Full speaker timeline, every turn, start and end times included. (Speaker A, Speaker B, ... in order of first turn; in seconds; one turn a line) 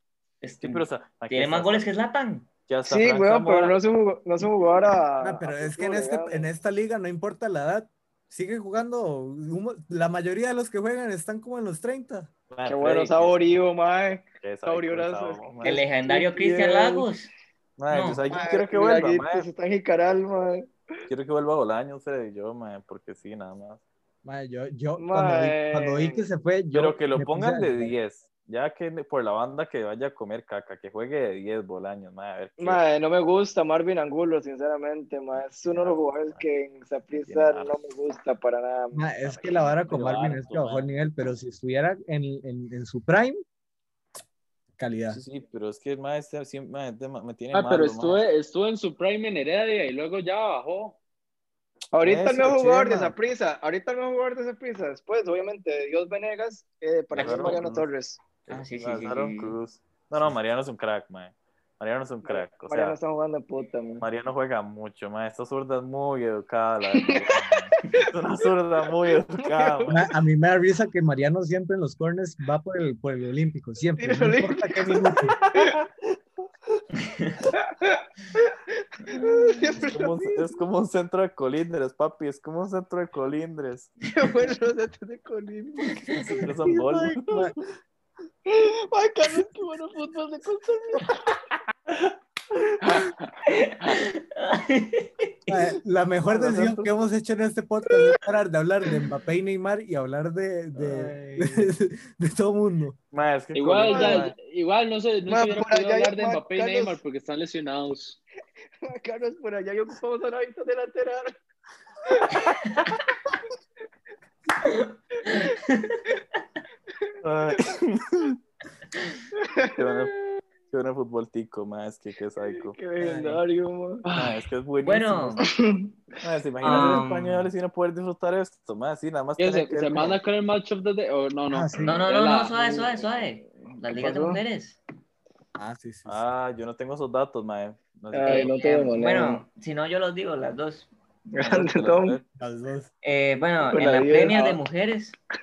Speaker A: 0.4-2.5
Speaker B: 0.6-1.9
Speaker B: 2.7-3.8
Speaker C: 2.9-6.5
Speaker D: 5.2-12.3
Speaker B: 12.5-13.3
Speaker C: 12.7-17.1
Speaker B: 14.4-15.8
Speaker A: 15.6-17.3
Speaker B: 17.8-19.5
Speaker A: 17.9-18.2
Speaker C: 18.3-20.7
Speaker B: 21.1-23.8
Speaker D: 24.2-28.0
Speaker C: 25.0-26.2
Speaker B: 26.7-32.8
Speaker C: 32.6-39.0
Speaker B: 35.5-36.4
Speaker B: 37.2-37.8
Speaker D: 38.9-43.4
Speaker B: 39.2-40.9
Speaker D: 44.8-45.2
Speaker B: 45.1-48.2
Speaker E: 47.5-51.0
Speaker C: 51.9-58.2
Speaker B: 52.0-53.1
Speaker A: 57.1-57.7
Speaker B: 57.1-57.9
Speaker B: 58.5-63.0
Speaker A: 58.5-59.6
Speaker C: 62.2-64.1
Speaker B: 64.0-70.1
Speaker C: 67.0-68.0
Speaker C: 69.1-69.8
Speaker D: 69.9-75.4
Speaker C: 74.0-75.8
Speaker B: 75.4-75.8
Speaker A: 77.0-77.4
Speaker C: 77.5-78.5
Speaker C: 79.1-80.5
Speaker A: 79.2-79.8
Speaker B: 79.8-83.9
Speaker C: 84.1-86.5
Speaker B: 86.2-87.7
Speaker D: 87.3-87.5
Speaker C: 88.5-91.4
Speaker C: 92.8-93.1
Speaker A: 93.5-95.6
Speaker D: 95.5-103.0
Speaker B: 96.3-96.9
Speaker B: 100.8-101.7
Speaker B: 103.1-104.3
Speaker E: 103.5-108.2
Speaker C: 103.8-104.3
Speaker C: 105.3-107.0
Speaker C: 108.8-111.3
Speaker C: 112.1-112.8
Speaker A: 114.6-116.0
Speaker B: 117.2-118.4
Speaker C: 119.4-120.0
Speaker B: 119.8-120.1
Speaker B: 120.7-122.8
Speaker C: 122.5-124.0
Speaker D: 123.0-123.4
Speaker E: 124.0-124.4
Speaker B: 124.1-125.5
Speaker A: 124.8-125.4
Speaker C: 125.4-125.9
Speaker B: 126.2-130.2
Speaker A: 126.6-127.5
Speaker E: 129.4-132.8
Speaker D: 131.5-132.0
Speaker A: 131.8-134.8
Speaker C: 132.8-134.4
Speaker D: 135.6-136.2
Speaker B: 136.1-138.6
Speaker C: 138.1-139.4
Speaker A: 138.2-141.7
Speaker C: 141.4-142.2
Speaker B: 141.6-142.2
Speaker D: 142.4-142.9
Speaker A: 143.0-145.2
Speaker C: 143.6-144.6